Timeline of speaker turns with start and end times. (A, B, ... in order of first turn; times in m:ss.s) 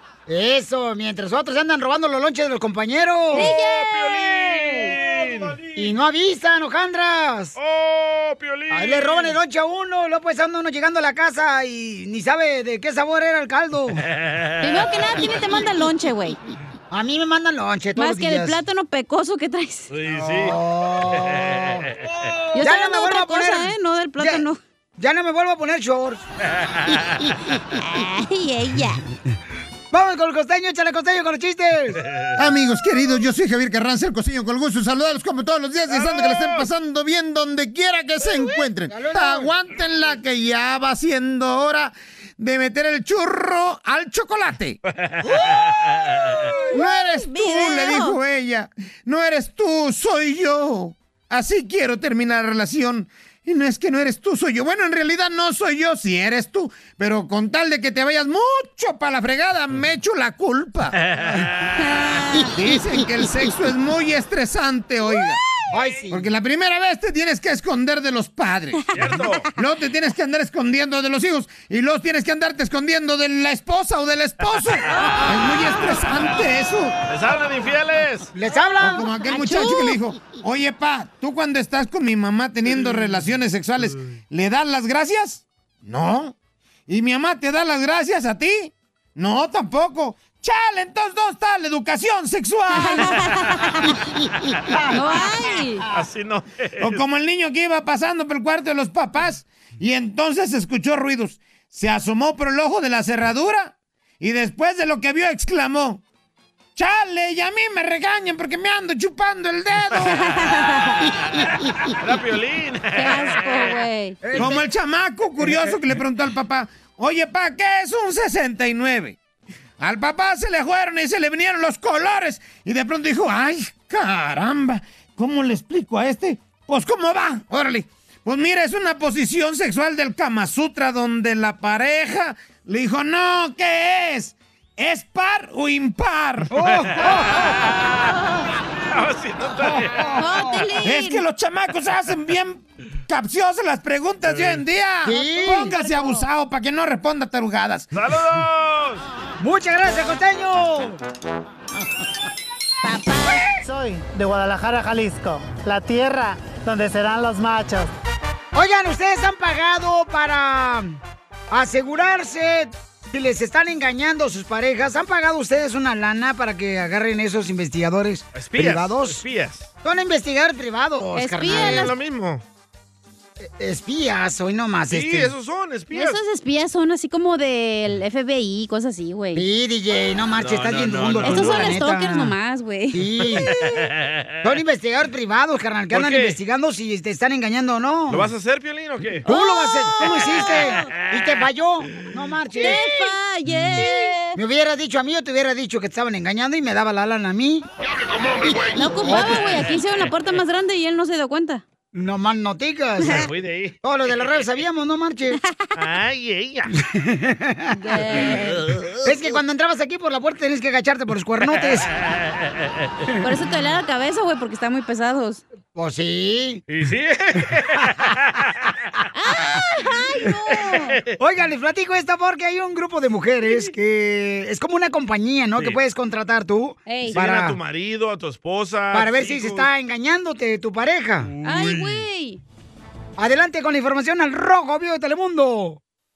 0:00.3-0:03.5 A
0:03.3-0:05.0 B
0:03.3-0:05.9 C
0:05.8-0:07.6 A
0:07.6-0:09.4 C
0:08.7-0:14.0 A
0:14.2-0:14.7 C
0:14.6-0:16.4 B
0:15.2-0:15.7 A
0:16.9-0:18.6 A
0:18.0-0:19.9 B
0:19.9-0:20.6 C
0:20.1-0:21.9 A
0:21.1-0:21.9 C
0:22.5-0:24.6 B
0:22.6-0:24.5 A
0:25.0-0:26.2 A
0:27.8-0:29.0 B
0:29.9-0:32.0 A
0:32.4-0:44.8 D
0:35.9-0:36.7 C
0:38.9-0:39.5 A
0:45.2-0:45.8 C
0:46.7-1:01.0 D
0:46.7-0:48.2 B
1:01.1-1:01.7 C
1:01.8-1:02.6 B
1:02.5-1:05.4 D
1:05.7-1:06.2 A
1:06.1-1:08.8 D
1:08.9-1:09.5 C
1:09.6-1:17.0 D
1:14.9-1:15.8 B
1:17.1-1:18.3 C
1:18.4-1:19.4 A
1:18.8-1:26.3 D
1:19.3-1:20.0 B
1:26.9-1:33.3 D
1:32.7-1:33.9 B
1:34.9-1:35.9 B
1:35.9-1:37.0 C
1:36.8-1:46.0 D
1:46.8-1:50.3 D
1:50.2-1:51.1 B
1:51.9-1:53.7 C
1:53.0-1:54.2 B
1:54.2-1:54.7 A
1:54.3-1:59.2 D
1:59.8-2:16.5 D
2:16.5-2:17.6 A
2:17.0-2:18.0 C
2:17.9-2:18.5 B
2:18.8-2:20.2 C
2:19.7-2:20.6 A
2:20.2-2:21.2 B
2:20.8-2:27.9 D
2:24.3-2:24.6 C
2:25.0-2:25.7 A
2:25.4-2:26.2 B
2:27.9-2:29.0 C
2:29.4-2:31.0 A
2:32.8-2:33.5 B
2:33.6-2:37.9 E
2:38.5-2:41.0 A
2:41.5-2:49.2 A
2:48.3-2:49.7 C
2:49.8-2:51.9 A
2:51.2-2:51.9 B
2:51.5-2:52.4 C
2:53.4-2:55.3 A
2:54.9-2:56.2 C
2:55.9-2:59.4 B
2:59.4-3:02.4 A
3:00.4-3:01.8 C
3:01.2-3:03.7 B
3:02.9-3:03.6 A
3:04.4-3:08.3 A
3:05.9-3:06.4 C
3:08.1-3:09.3 C
3:09.2-3:12.9 A
3:09.3-3:10.9 B
3:12.6-3:14.4 B
3:13.7-3:17.7 A
3:18.4-3:19.6 A
3:18.7-3:21.6 B
3:21.9-3:23.3 A
3:23.0-3:23.8 C
3:23.8-3:25.4 A
3:25.4-3:25.7 B
3:25.8-3:26.7 C
3:26.7-3:27.8 A
3:27.8-3:28.7 B
3:28.3-3:29.3 C
3:29.0-3:31.9 A
3:32.0-3:32.4 C
3:33.2-3:35.4 B
3:35.8-3:36.6 A
3:36.7-3:38.7 C
3:39.2-3:41.0 B
3:41.2-3:47.6 A
3:46.9-3:47.2 B
3:47.1-3:49.7 C
3:48.9-3:51.3 A
3:51.4-3:51.9 C
3:51.4-3:52.4 B
3:53.2-3:55.8 A